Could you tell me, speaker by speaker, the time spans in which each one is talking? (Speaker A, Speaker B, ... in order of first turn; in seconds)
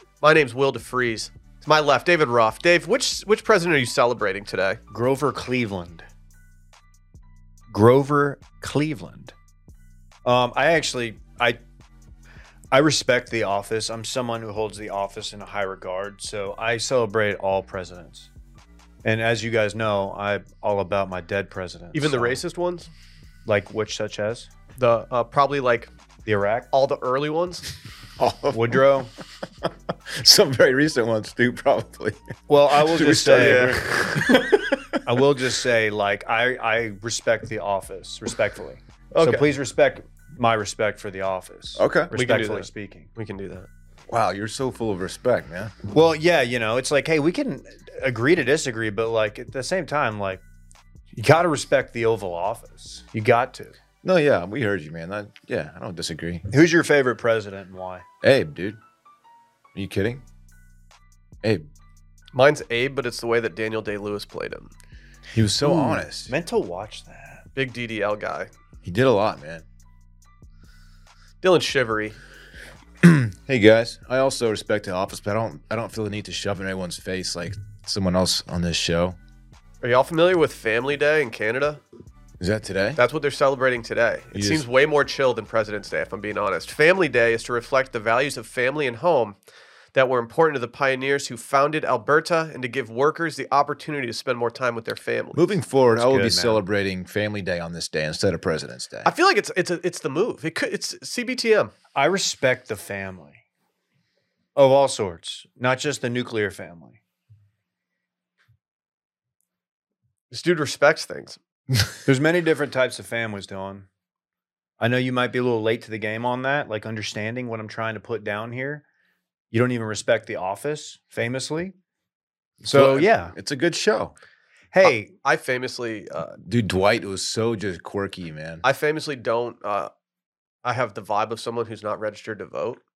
Speaker A: 0.2-4.8, 21.9-22.9, 24.8-25.9, 26.7-27.6, 33.4-33.8, 39.1-39.5, 42.1-43.7, 62.3-64.7, 67.5-68.5, 71.4-72.2, 79.8-81.8, 83.0-89.3, 89.9-95.5, 99.0-101.7, 110.3-111.4, 124.8-126.4, 128.6-129.9, 130.6-132.8
Speaker B: 4.9-6.0, 7.7-9.3, 10.2-11.6, 12.7-18.3, 19.0-22.4, 23.4-24.5, 26.2-26.7, 28.5-29.1, 32.5-43.1, 45.9-50.4, 51.1-53.8, 56.5-58.0, 65.6-67.5, 96.0-96.6, 101.9-103.4, 104.5-107.0, 112.0-113.8, 114.8-118.8, 119.5-121.7, 122.7-123.3, 124.7-125.1
Speaker C: 28.2-28.9, 29.6-35.0, 41.8-42.1, 44.1-45.7, 54.0-56.5, 58.2-58.8, 59.7-60.2, 61.4-61.7, 65.3-66.3, 68.8-69.6, 73.0-79.2, 82.4-83.0, 84.3-84.6, 95.3-99.1, 122.6-124.1, 126.4-128.6